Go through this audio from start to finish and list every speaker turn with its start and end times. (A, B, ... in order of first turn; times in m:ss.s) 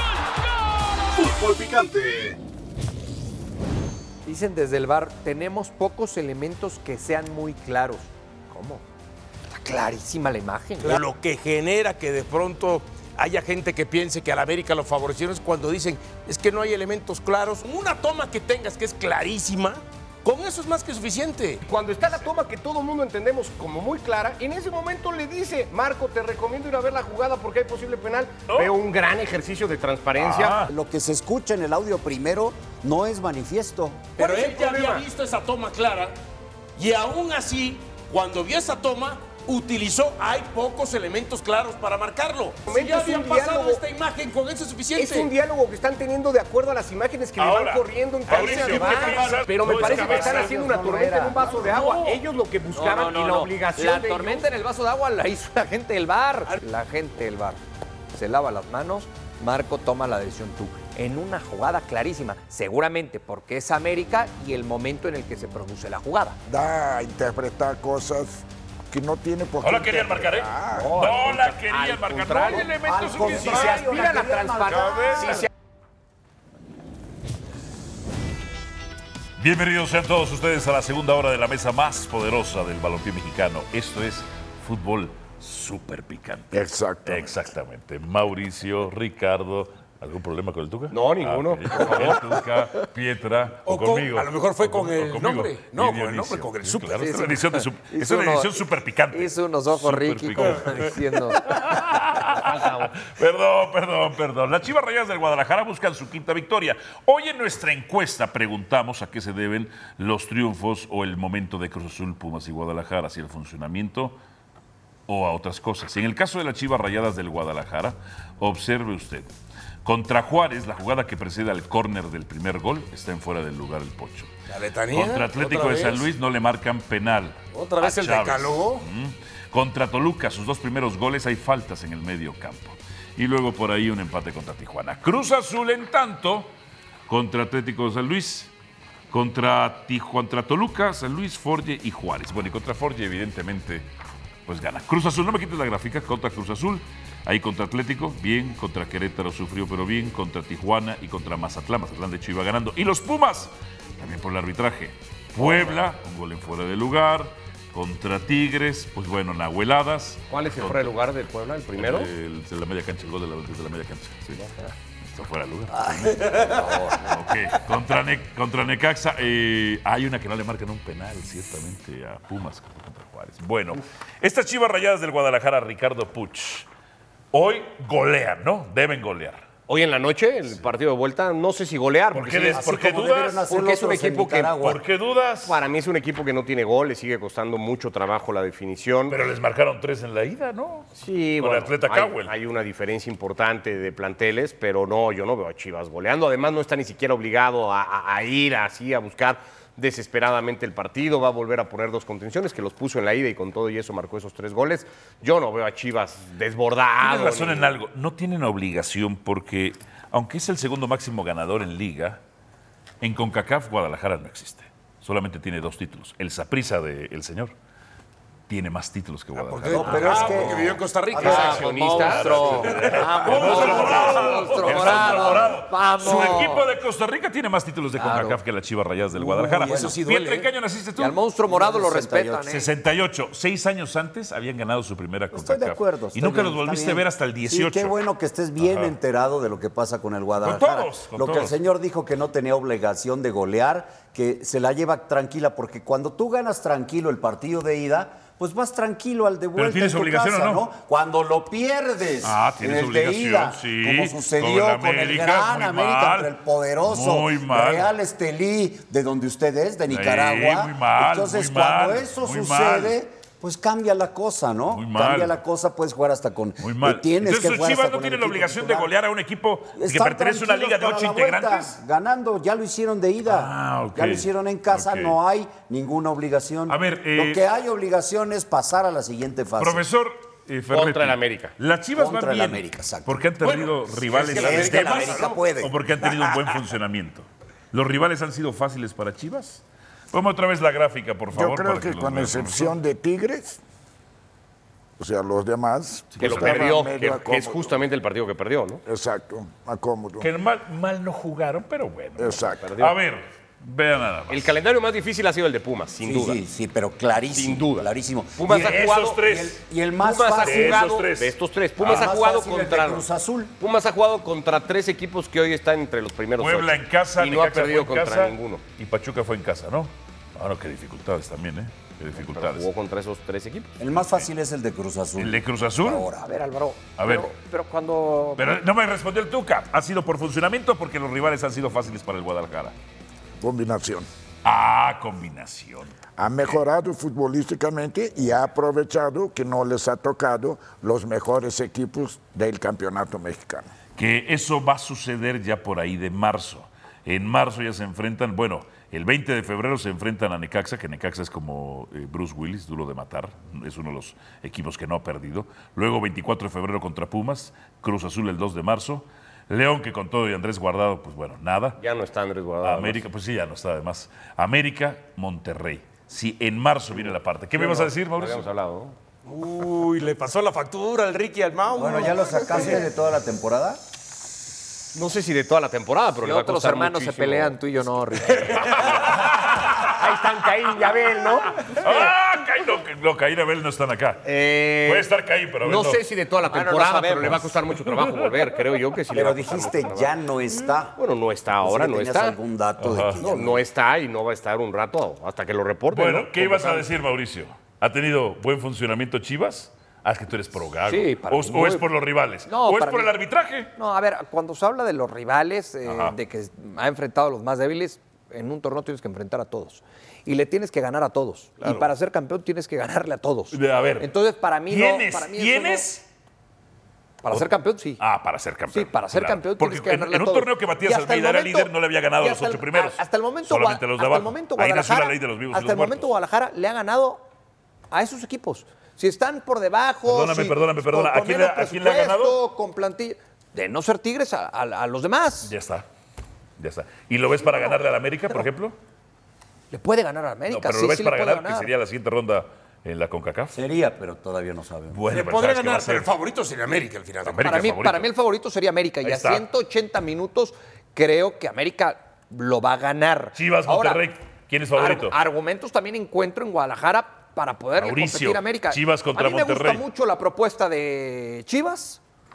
0:01.2-0:02.4 A
0:04.2-0:08.8 B
0:09.5-0:11.0 B
0:10.8-0:21.6 A
0:21.6-0:30.6 C
0:30.2-0:30.7 D
0:30.7-0:34.1 E
0:34.2-0:36.2 A
0:34.2-0:35.0 C
0:36.8-0:45.3 A
0:42.7-0:43.8 C
0:44.9-0:54.4 C
0:47.4-0:50.6 D
0:48.3-0:49.5 A
0:49.2-0:51.7 E
0:51.6-0:52.0 B
0:52.7-0:57.6 B
0:58.1-1:06.4 B
1:06.5-1:11.0 F
1:09.6-1:13.9 D
1:10.7-1:12.8 C
1:12.5-1:15.4 E
1:13.3-1:15.4 B
1:13.4-1:14.3 C
1:14.6-1:15.4 D
1:19.4-1:54.2 D
1:26.5-1:27.4 F
1:30.9-1:32.3 C
1:33.7-1:37.2 A
1:37.0-1:38.6 B
1:39.1-1:41.6 B
1:42.2-1:42.9 C
1:55.1-1:59.3 D
1:59.8-2:04.3 D
2:04.5-2:06.0 A
2:04.9-2:16.5 D
2:07.5-2:08.9 A
2:17.1-2:18.5 D
2:19.1-2:23.9 D
2:24.5-2:40.9 D
2:35.4-2:35.8 C
2:40.3-2:42.1 C
2:41.8-2:44.5 D
2:45.0-2:56.7 D
2:45.9-2:47.0 E
2:57.3-2:59.4 D
2:59.7-3:02.8 C
3:02.1-3:03.5 D
3:02.5-3:04.8 E
3:03.5-3:04.6 C
3:04.5-3:05.6 D
3:05.5-3:09.3 C
3:09.1-3:12.3 D
3:11.0-3:27.8 C
3:27.0-3:32.2 D
3:33.0-3:37.6 D
3:38.5-3:40.8 D
3:39.4-3:41.7 A
3:39.7-3:41.6 E
3:41.1-3:43.0 C
3:41.2-3:46.6 B
3:41.3-3:51.2 D
3:42.7-3:44.9 A
3:48.0-3:48.4 B
3:49.3-3:50.5 A
3:49.6-3:50.0 E
3:51.0-3:52.7 B
3:51.5-3:52.5 E
3:52.5-3:58.0 D
3:55.3-4:28.9 E
3:58.6-3:58.9 D
4:00.4-4:01.6 D
4:09.6-4:10.6 D
4:12.2-4:16.3 D
4:16.8-4:17.9 D
4:19.9-4:23.0 D
4:24.7-4:25.4 D
4:26.6-4:31.8 D
4:29.8-4:39.9 E
4:33.2-4:35.2 D
4:36.7-4:37.4 D
4:39.6-4:52.8 D
4:40.7-4:41.6 C
4:42.0-4:43.3 E
4:43.4-4:45.5 A
4:44.2-4:45.8 E
4:51.3-4:53.6 F
4:55.0-4:57.8 F
4:56.1-4:56.9 D
4:56.2-4:58.8 C
4:58.9-5:00.3 F
5:00.2-5:04.6 D
5:02.2-5:02.7 F
5:02.6-5:03.0 C
5:04.3-5:06.4 C
5:06.0-5:11.0 E
5:07.4-5:09.2 C
5:08.5-5:09.6 D
5:10.0-5:13.1 C
5:10.4-5:12.1 D
5:11.8-5:13.5 E
5:13.6-5:18.6 C
5:16.4-5:22.7 D
5:22.1-5:23.7 C
5:23.8-5:26.2 E
5:24.0-5:24.3 D
5:25.2-5:26.1 D
5:26.2-5:28.6 B
5:27.0-5:27.3 D
5:28.4-5:32.8 D
5:33.4-5:34.1 F
5:34.4-5:36.0 D
5:36.2-5:43.7 F
5:44.0-6:01.8 D
6:01.8-6:03.0 C
6:02.6-6:08.5 D
6:07.5-6:09.0 C
6:09.3-6:12.7 A
6:11.7-6:13.8 E
6:14.9-6:17.6 C
6:16.2-6:18.7 B
6:18.6-6:20.0 D
6:18.8-6:19.3 C
6:19.8-6:21.8 C
6:21.6-6:24.3 D
6:24.2-6:30.1 C
6:24.8-6:26.0 D
6:26.5-6:27.6 B
6:27.2-6:28.1 D
6:29.1-6:31.0 E
6:31.0-6:32.4 C
6:31.6-6:33.6 E
6:32.8-6:33.3 D
6:33.2-6:36.9 C
6:35.9-6:43.7 D
6:40.9-6:41.9 B
6:42.5-6:43.1 B
6:43.8-6:55.9 B
6:45.9-6:46.2 D
6:51.6-6:51.9 D
6:53.5-6:54.1 D
6:54.7-6:56.0 D
6:57.2-6:58.0 B
6:58.0-7:06.1 D
6:58.7-7:07.2 B
7:07.9-7:15.5 B
7:10.1-7:12.4 D
7:15.4-7:15.9 D
7:16.6-7:18.8 D
7:19.7-7:21.7 B
7:20.5-7:23.6 D
7:23.5-7:25.0 E
7:24.9-7:26.1 D
7:25.1-7:27.6 A
7:27.2-7:28.1 D
7:27.4-7:34.0 B
7:29.0-7:29.5 D
7:33.4-7:35.2 D
7:34.7-7:42.0 B
7:37.8-7:39.8 D